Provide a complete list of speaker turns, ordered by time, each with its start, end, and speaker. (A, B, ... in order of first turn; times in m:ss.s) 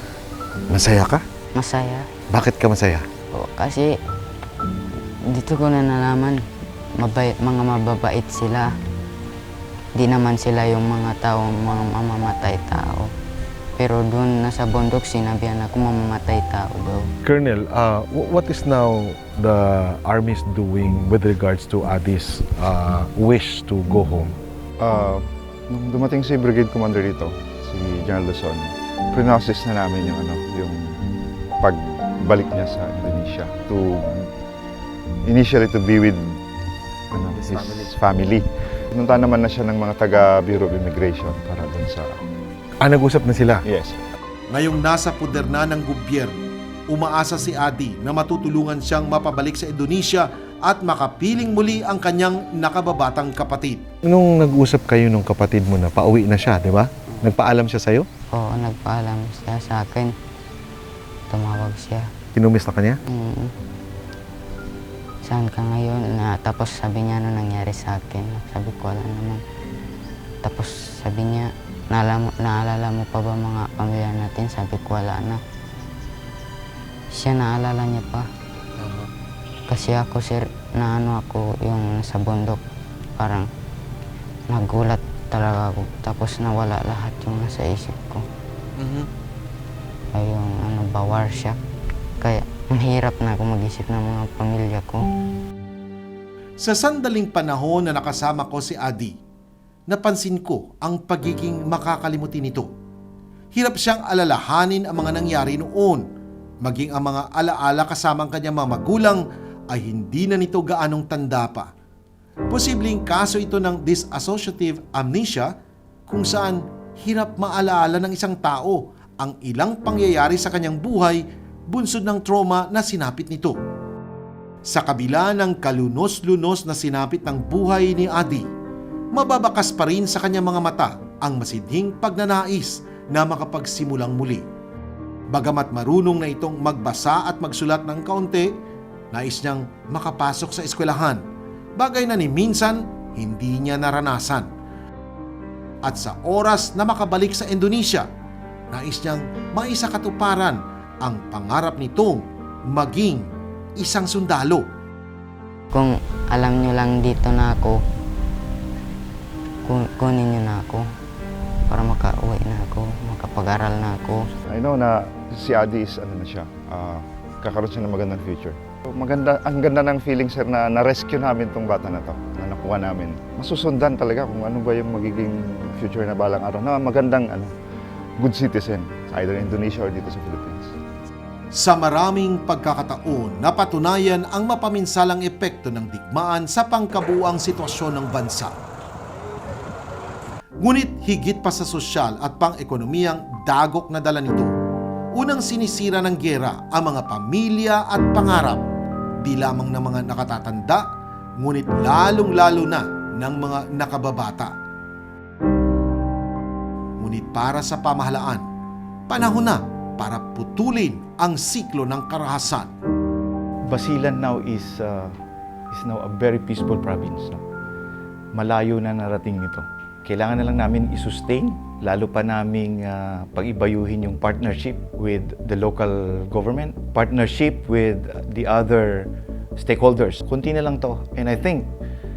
0:00.7-0:01.2 A
0:01.6-0:02.0 B
0:02.3-0:03.0 A
0:03.3-0:03.9 B
0:05.3-0:06.4 B
0:07.0-0:08.7 B
0:10.0-0:13.1 B
0:13.8-0:17.1 B
0:17.2-0:24.4 A
0:24.8-0:31.0 C
0:31.6-0:34.3 C
0:35.3-0:36.2 C
0:37.1-0:42.2 C
0:37.5-0:37.9 A
0:42.8-0:43.6 A
0:43.6-0:44.0 C
0:44.5-0:46.3 D
0:46.9-0:53.8 D
0:54.0-0:58.1 A
0:58.3-1:00.1 B
1:01.3-1:02.1 B
1:02.4-1:03.0 A
1:03.1-1:03.5 B
1:05.2-1:09.4 B
1:10.4-1:15.4 B
1:17.1-1:18.3 B
1:19.7-1:22.6 B
1:23.2-1:23.5 B
1:24.5-1:28.2 B
1:30.2-1:31.6 B
1:32.2-1:35.0 B
1:36.6-1:39.2 D
1:39.9-1:42.7 D
1:43.5-1:46.0 D
1:46.6-1:51.7 D
1:52.5-1:55.5 D
1:56.1-2:03.6 D
2:04.6-2:08.5 D
2:09.1-2:14.5 D
2:15.3-2:18.5 D
2:19.1-2:21.2 D
2:21.8-2:24.5 D
2:25.8-2:28.1 D
2:28.7-2:34.6 D
2:35.7-2:37.8 B
2:39.7-2:40.8 B
2:41.7-2:44.2 B
2:44.5-2:57.5 C
2:58.2-3:00.8 C
3:01.5-3:08.6 D
3:10.6-3:14.5 D
3:15.1-3:18.6 D
3:19.2-3:20.8 D
3:21.4-3:24.5 D
3:27.0-3:28.4 D
3:29.1-3:32.7 D
3:33.7-3:35.2 E
3:35.7-3:37.4 E
3:38.3-3:51.7 E